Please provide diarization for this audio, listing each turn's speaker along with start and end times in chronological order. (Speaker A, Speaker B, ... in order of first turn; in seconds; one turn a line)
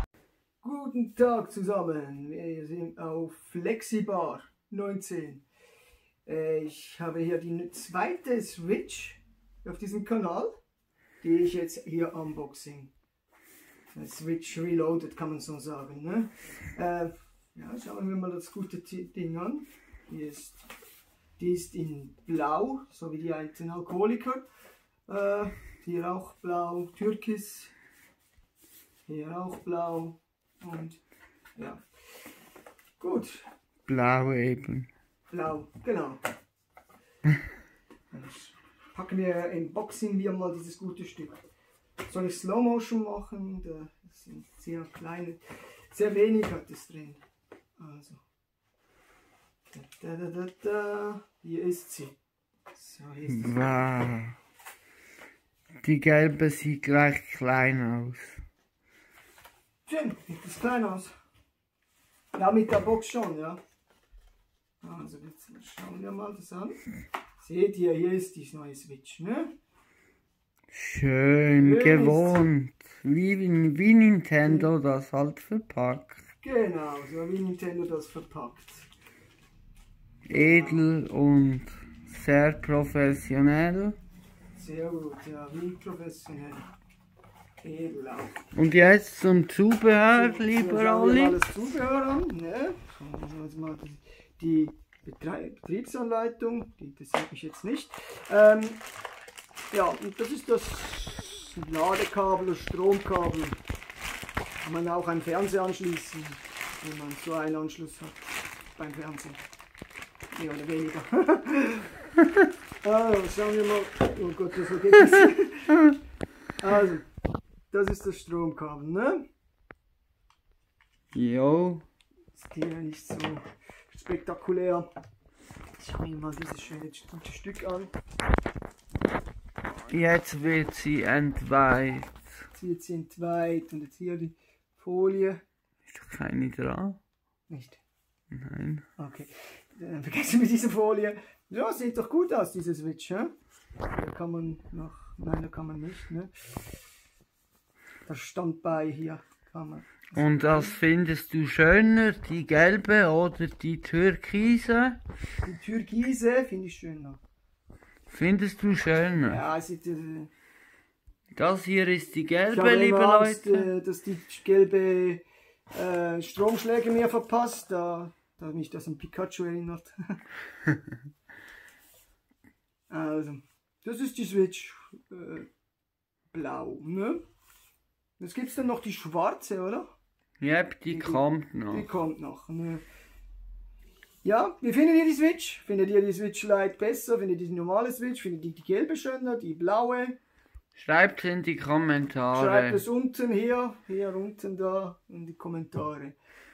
Speaker A: 0.6-5.4
Speaker A: 6.3-10.5
Speaker A: 11.2-12.9
Speaker A: 13.9-20.7
Speaker A: 21.4-24.4
Speaker A: 25.1-27.7
Speaker A: 29.1-31.0
Speaker A: 31.6-31.8
Speaker A: 33.0-33.4
Speaker B: 33.9-34.9
Speaker A: 35.3-36.2
Speaker A: 38.1-41.4
Speaker A: 42.1-47.2
Speaker A: 47.8-48.2
Speaker A: 49.7-52.1
Speaker A: 52.7-53.9
Speaker B: 53.3-54.4
Speaker B: 55.8-58.4
Speaker A: 59.9-61.1
Speaker A: 62.3-63.6
Speaker A: 64.8-66.8
Speaker A: 67.4-69.5
Speaker B: 70.7-76.2
Speaker A: 71.6-72.5
Speaker A: 74.4-74.7
Speaker A: 76.4-78.9
Speaker B: 80.3-84.0
Speaker A: 80.3-80.9
Speaker A: 84.5-86.7
Speaker A: 87.6-88.4
Speaker B: 88.5-91.4
Speaker A: 90.1-98.8
Speaker A: 99.7-103.6
Speaker A: 104.6-108.2
Speaker A: 108.8-109.4
Speaker A: 110.3-112.0
Speaker A: 112.8-115.9
Speaker A: 116.6-117.0
Speaker A: 117.7-119.2
Speaker B: 121.1-121.8
Speaker A: 122.3-124.9
Speaker A: 125.8-127.9
Speaker B: 129.9-132.1
Speaker A: 132.5-135.4
Speaker B: 135.9-137.0
Speaker A: 137.5-137.8
Speaker B: 138.3-138.9
Speaker A: 139.0-143.3
Speaker A: 143.9-146.6
Speaker A: 148.1-150.8
Speaker B: 150.1-155.0
Speaker A: 155.4-157.2
Speaker B: 158.1-159.4
Speaker A: 159.2-160.3
Speaker B: 161.3-163.7
Speaker A: 162.5-170.0
Speaker A: 172.9-175.5
Speaker A: 176.3-177.2
Speaker A: 178.2-179.9
Speaker B: 180.4-181.9
Speaker A: 180.9-182.8
Speaker A: 184.2-190.2
Speaker B: 190.8-192.8
Speaker A: 192.3-196.2